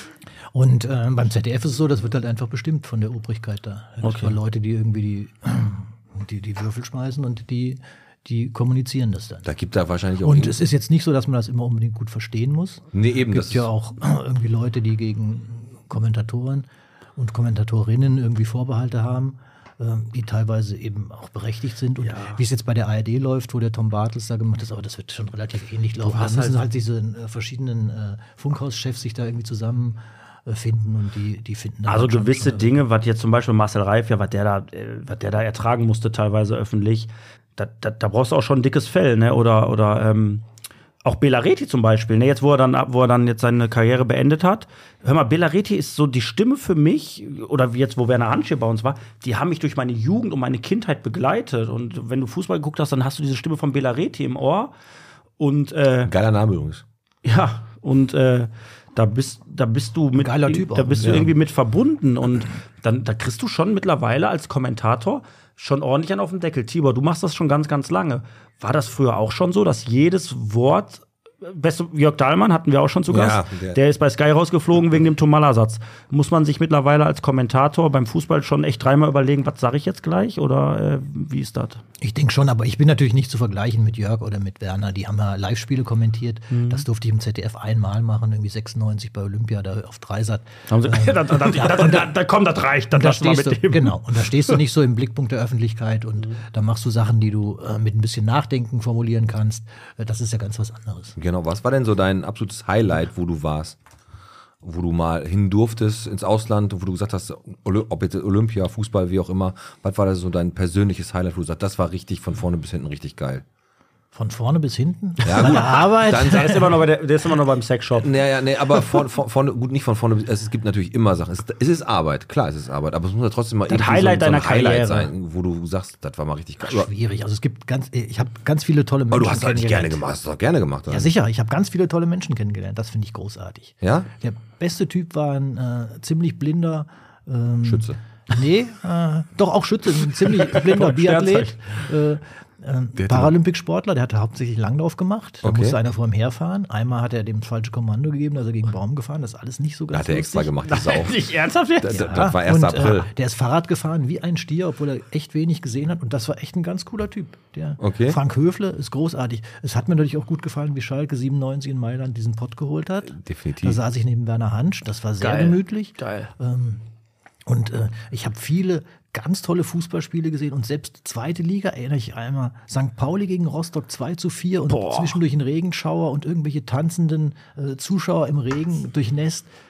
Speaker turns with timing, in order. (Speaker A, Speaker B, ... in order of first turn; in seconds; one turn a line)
Speaker A: 0.5-9.4
Speaker B: 4.0-4.3
Speaker C: 9.4-10.7
Speaker A: 10.2-32.8
Speaker C: 12.9-13.7
Speaker B: 22.0-22.4
Speaker B: 26.0-26.6
Speaker B: 31.9-40.4
Speaker B: 41.0-54.7
Speaker B: 55.4-56.1
Speaker C: 56.0-56.8
Speaker B: 57.2-81.8
Speaker A: 60.2-61.3
Speaker C: 73.1-73.8
Speaker A: 82.0-92.2
Speaker B: 86.5-86.8
Speaker B: 90.7-94.6
Speaker A: 92.9-101.2
Speaker C: 101.2-103.8
Speaker C: 104.6-113.4
Speaker A: 114.1-116.7
Speaker C: 115.2-116.7
Speaker B: 115.4-118.1
Speaker C: 118.0-126.9
Speaker B: 123.7-125.1
Speaker A: 126.6-130.0
Speaker C: 129.1-131.1
Speaker A: 130.9-150.5
Speaker C: 133.8-134.1
Speaker C: 137.6-138.0
Speaker B: 140.4-141.5
Speaker C: 142.9-143.3
Speaker C: 145.4-145.8
Speaker C: 149.9-151.2
Speaker B: 150.6-152.1
Speaker C: 151.8-153.1
Speaker A: 151.9-166.8
Speaker C: 157.8-158.2
Speaker C: 163.1-163.8
Speaker B: 165.2-166.3
Speaker A: 167.4-179.5
Speaker B: 174.7-175.2